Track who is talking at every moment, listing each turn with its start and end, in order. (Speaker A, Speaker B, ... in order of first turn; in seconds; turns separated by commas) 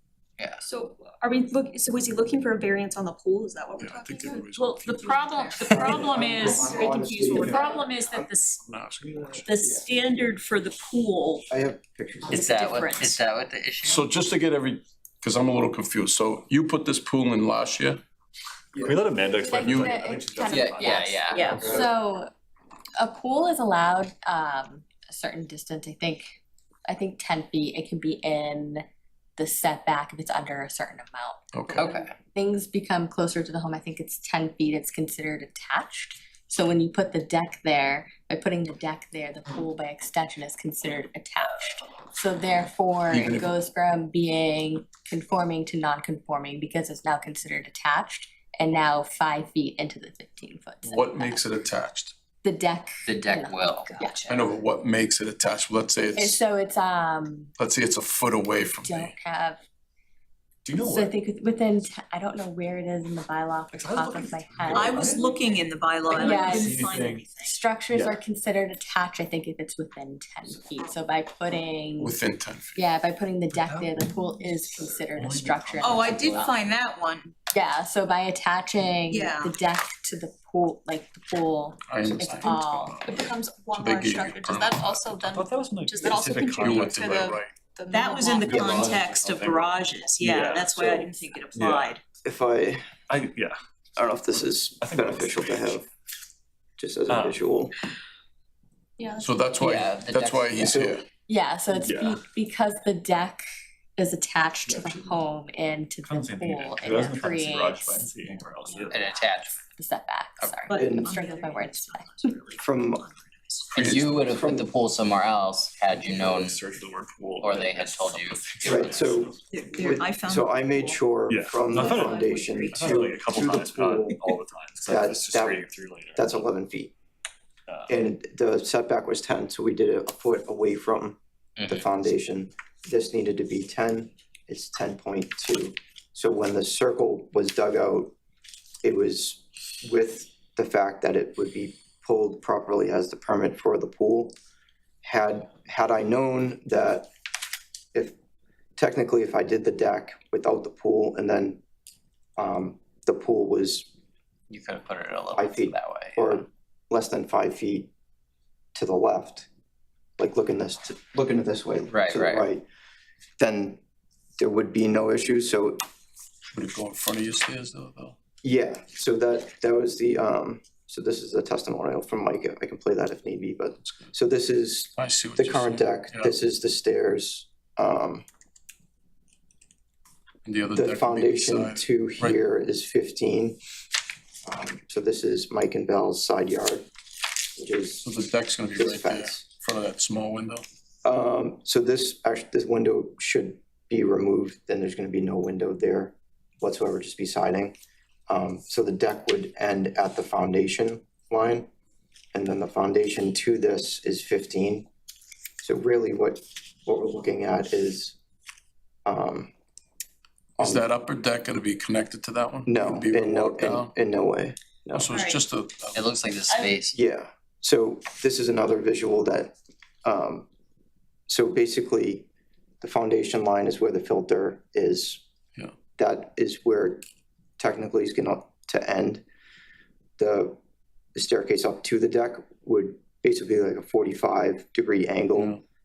Speaker A: 0.6-8.3, Speaker B: 3.8-6.2, Speaker C: 4.8-5.9, Speaker D: 5.7-7.8, Speaker E: 6.2-8.6, Speaker B: 8.7-9.4, Speaker E: 9.5-11.5, Speaker D: 9.6-9.9, Speaker D: 11.5-12.4, Speaker F: 12.3-14.1, Speaker E: 12.4-13.2, Speaker B: 13.8-18.0, Speaker G: 18.8-21.4, Speaker C: 19.4-22.3, Speaker B: 19.5-20.0, Speaker F: 20.5-21.5, Speaker E: 21.3-21.8, Speaker D: 21.5-21.9, Speaker C: 23.0-28.9, Speaker C: 29.4-51.5, Speaker B: 31.5-31.9, Speaker F: 31.8-32.1, Speaker B: 43.1-43.5, Speaker B: 50.9-52.2, Speaker C: 52.4-54.2, Speaker F: 53.0-54.4, Speaker E: 54.0-54.3, Speaker B: 54.3-56.4, Speaker C: 56.2-57.5, Speaker B: 57.6-59.1, Speaker C: 58.8-59.6, Speaker G: 60.6-61.2, Speaker C: 60.8-65.2, Speaker G: 63.7-65.6, Speaker E: 64.7-67.6, Speaker C: 66.1-66.8, Speaker G: 66.1-67.2, Speaker C: 67.4-72.2, Speaker B: 72.0-72.9, Speaker C: 72.8-76.6, Speaker G: 75.2-75.9, Speaker E: 75.8-77.3, Speaker C: 77.5-83.0, Speaker E: 79.1-79.5, Speaker B: 81.9-83.2, Speaker A: 82.2-89.0, Speaker B: 83.7-85.3, Speaker G: 85.3-87.0, Speaker B: 86.6-87.6, Speaker E: 87.9-92.0, Speaker D: 88.4-89.0, Speaker B: 88.6-89.7, Speaker G: 90.2-91.0, Speaker D: 90.8-91.1, Speaker G: 91.5-92.0, Speaker D: 92.2-92.8, Speaker G: 93.1-93.6, Speaker D: 94.0-95.8, Speaker G: 94.8-95.8, Speaker D: 96.8-97.7, Speaker G: 97.1-97.4, Speaker A: 99.0-99.5, Speaker B: 99.2-101.1, Speaker F: 99.6-100.8, Speaker D: 100.6-101.0, Speaker C: 101.3-103.5, Speaker G: 101.8-102.2, Speaker C: 104.0-112.2, Speaker G: 104.7-105.2, Speaker G: 106.0-109.1, Speaker F: 108.9-109.6, Speaker F: 110.4-110.7, Speaker E: 110.7-113.7, Speaker D: 110.8-111.2, Speaker D: 112.6-113.0, Speaker F: 113.7-116.7, Speaker B: 113.8-114.2, Speaker D: 113.9-114.7, Speaker G: 115.9-119.9, Speaker F: 117.4-119.0, Speaker B: 118.6-118.8, Speaker D: 118.6-124.2, Speaker E: 119.5-121.1, Speaker G: 121.3-126.4, Speaker E: 121.7-123.1, Speaker D: 124.9-126.9, Speaker G: 127.7-128.0, Speaker D: 127.9-138.2, Speaker F: 131.6-131.9, Speaker D: 138.8-144.3, Speaker D: 145.0-147.1, Speaker D: 148.8-151.6, Speaker D: 152.4-153.9, Speaker F: 154.5-156.5, Speaker D: 155.3-157.9, Speaker D: 158.8-159.5, Speaker D: 160.2-162.7, Speaker F: 161.9-162.5, Speaker D: 163.4-163.8, Speaker D: 164.4-165.8, Speaker B: 166.5-168.2, Speaker D: 168.4-178.2, Speaker B: 175.0-176.4, Speaker B: 180.4-182.4, Speaker D: 180.7-183.6, Speaker D: 184.5-186.9, Speaker D: 187.6-188.1, Speaker B: 188.0-190.7, Speaker D: 188.7-189.5, Speaker D: 191.0-197.8, Speaker D: 198.3-201.7, Speaker D: 202.3-204.9, Speaker D: 205.6-208.2, Speaker D: 209.1-209.5, Speaker D: 210.6-210.9, Speaker B: 210.6-213.9, Speaker D: 212.7-215.1, Speaker B: 214.9-216.1, Speaker E: 215.1-215.4, Speaker F: 215.9-217.0, Speaker E: 216.5-216.7, Speaker D: 216.9-220.5, Speaker D: 221.3-222.3, Speaker D: 222.8-225.2, Speaker D: 226.0-227.1, Speaker D: 227.6-229.2, Speaker D: 230.2-230.6, Speaker D: 231.2-235.6, Speaker B: 235.3-235.6